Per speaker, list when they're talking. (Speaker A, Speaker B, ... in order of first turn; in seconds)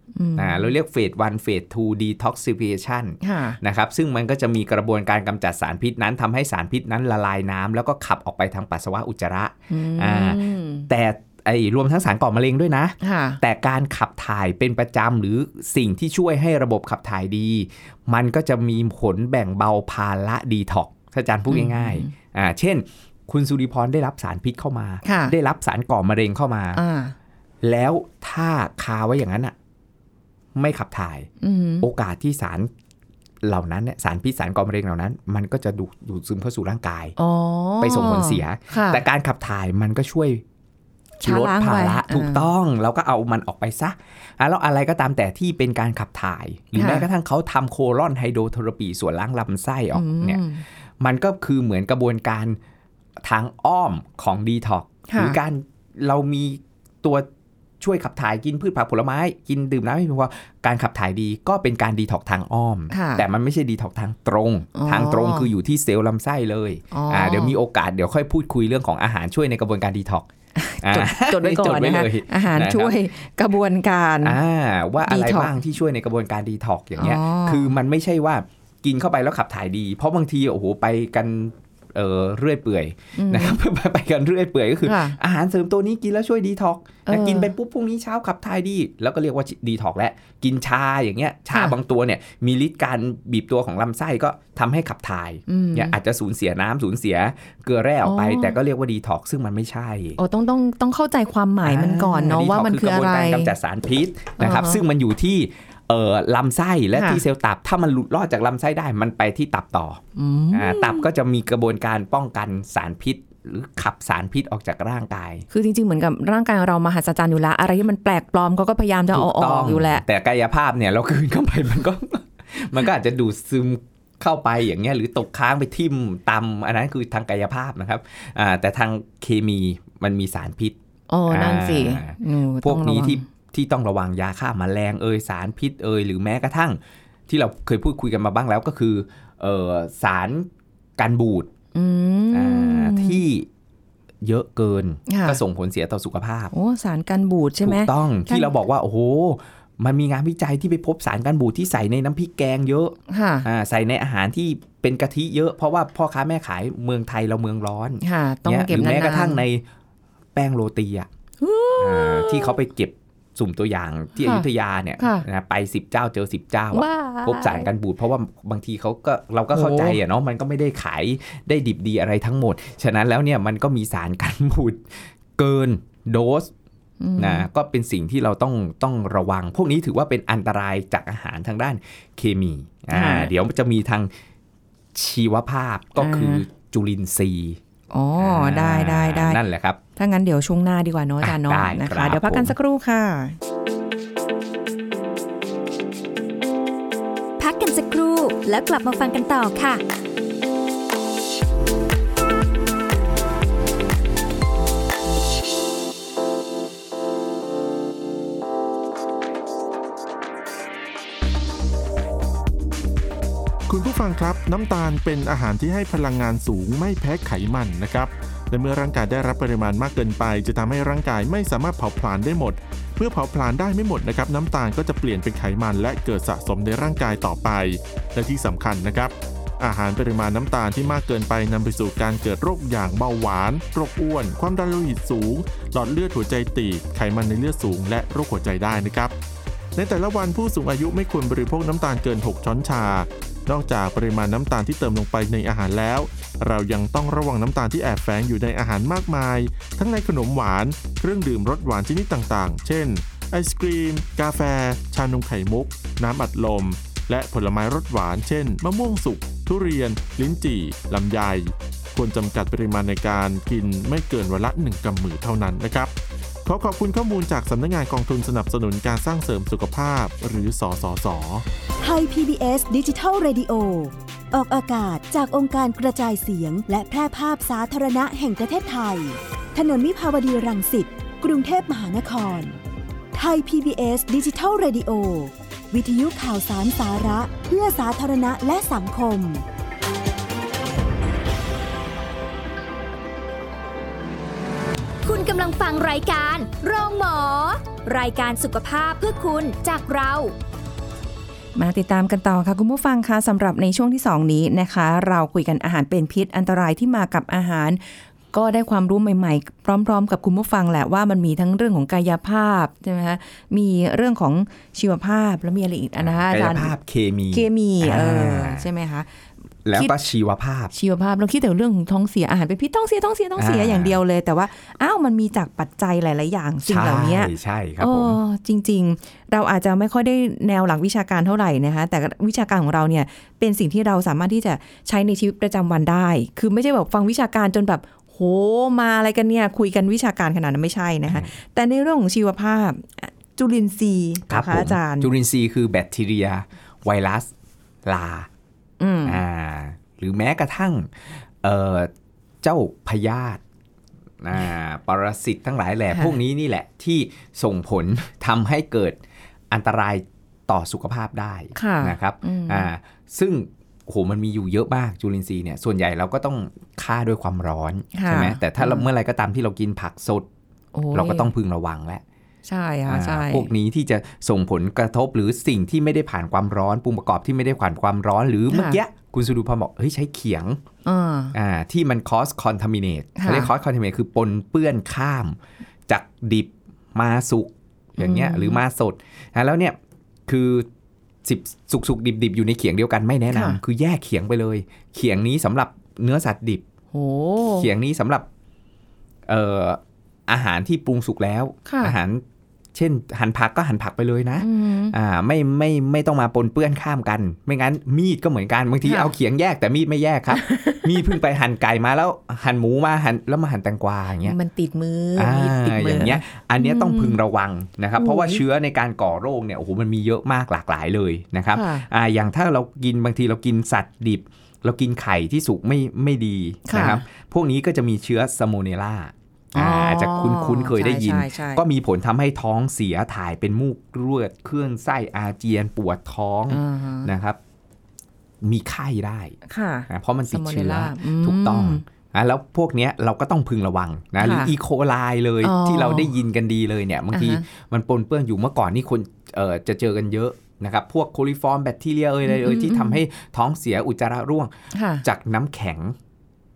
Speaker A: 0.2-0.7, 3.2-3.6, 9.7-10.9, 13.0-13.4, 21.5-22.1, 25.1-25.3, 26.8-27.1, 31.4-31.9, 37.2-39.0, 41.2-42.5, 46.8-47.1, 49.9-50.6, 55.1-55.4, 62.9-63.2, 64.8-65.5, 66.9-67.6, 70.6-74.4, 75.0-75.5, 77.0-77.7, 83.2-83.6, 84.8-85.2, 87.1-87.5, 95.5-96.0, 98.0-98.6, 100.2-103.5, 104.4-104.8, 107.0-107.2, 110.2-111.1, 115.5-120.0, 131.1-133.2, 141.7-143.2, 145.1-145.4, 146.5-148.5, 153.1-153.5, 158.0-159.4, 161.4-162.6, 164.2-164.5, 165.0-165.3, 166.7-167.7, 169.5-170.0, 177.0-177.5, 182.9-183.3, 186.0-186.4, 187.9-189.4, 190.0-193.4, 301.6-307.8, 308.3-316.7, 317.3-319.1, 320.7-345.1, 348.8-349.2, 361.6-362.7, 367.9-368.9, 370.7-371.3, 372.5-373.5, 378.5-378.8, 380.9-381.3, 383.2-383.5, 388.0-388.6, 393.3-393.6, 396.9-397.7, 401.7-402.0, 404.4-404.9, 408.8-409.1, 410.3-410.9, 414.2-417.2, 418.0-418.4, 421.5-421.9, 426.7-427.0, 429.6-431.6, 436.5-437.1, 439.5-441.8, 444.2-444.5, 445.4-446.1, 447.1-447.4, 452.2-453.0, 454.7-455.1
Speaker B: 0.4-26.8, 27.6-29.5, 30.6-31.3, 31.8-32.7, 33.4-37.2, 37.8-40.4, 41.2-50.4, 51.0-52.6, 53.2-57.3, 57.8-70.3, 70.8-73.0, 74.2-100.2, 101.6-110.0, 110.5-115.5, 119.1-130.8, 131.3-141.5, 142.3-143.5, 144.2-146.5, 147.6-159.7, 160.3-161.1, 161.8-176.5, 177.2-184.1, 184.9-187.6, 188.2-189.8, 191.2-192.5, 316.0-318.7, 319.6-320.7, 323.4-324.0, 326.7-328.2, 344.3-347.3, 347.9-348.3, 349.1-351.9, 352.4-353.4, 354.2-359.0, 359.5-370.3, 370.9-372.0, 372.9-380.6, 381.3-385.4, 385.9-390.7, 391.2-396.6, 397.5-398.3, 399.3-402.2, 402.7-414.4, 415.2-437.4, 438.4-439.4, 439.9-454.5, 455.0-456.0
Speaker C: 197.4-199.8, 295.0-300.3
Speaker D: 213.7-239.1, 239.8-265.9, 266.4-271.4
Speaker E: 271.8-282.6, 283.1-289.4